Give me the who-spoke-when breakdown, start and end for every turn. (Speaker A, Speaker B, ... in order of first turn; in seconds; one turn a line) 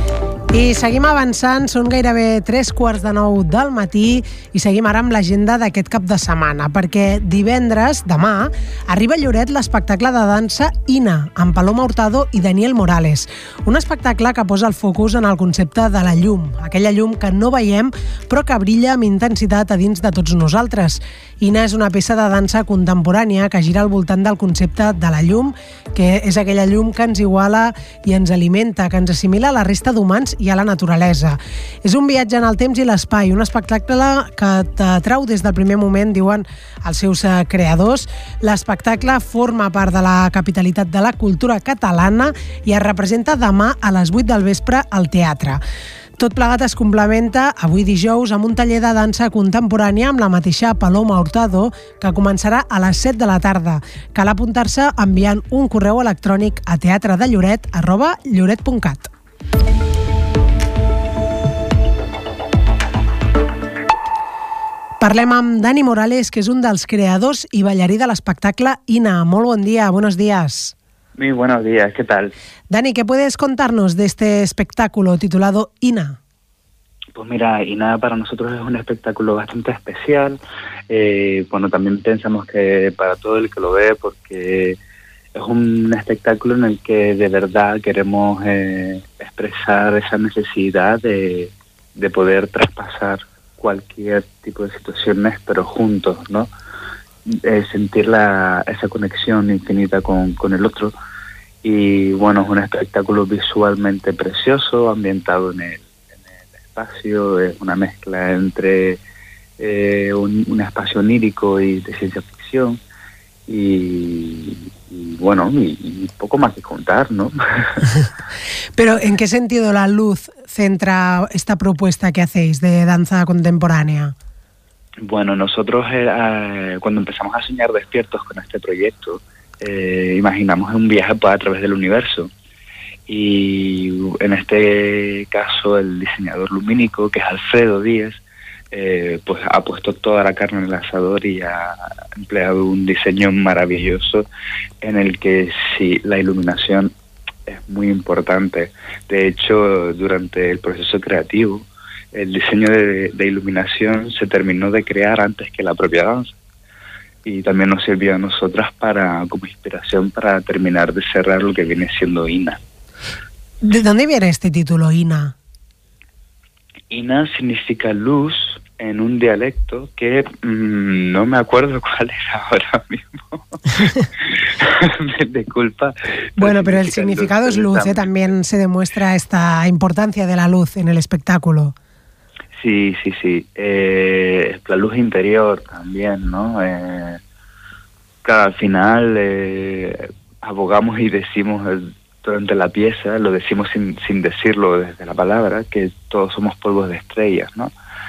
Speaker A: 0.5-45.6
Speaker A: 46.2-59.1
Speaker A: 65.0-70.7
Speaker B: 71.2-72.3
Speaker A: 72.7-76.2
Speaker B: 77.2-80.4
Speaker B: 80.9-84.8
Speaker B: 85.3-96.5
Speaker B: 97.3-100.9
Speaker B: 101.6-109.0
Speaker B: 109.6-112.8
Speaker B: 113.5-117.9
Speaker A: 118.8-124.1
Speaker B: 125.0-132.3
Speaker B: 133.1-138.2
Speaker B: 138.7-144.3
Speaker B: 144.8-146.9
Speaker B: 147.5-156.4
Speaker B: 157.3-162.6
Speaker A: 163.6-165.3
Speaker B: 166.9-178.1
Speaker A: 176.4-181.8
Speaker B: 182.6-187.2
Speaker B: 188.2-197.7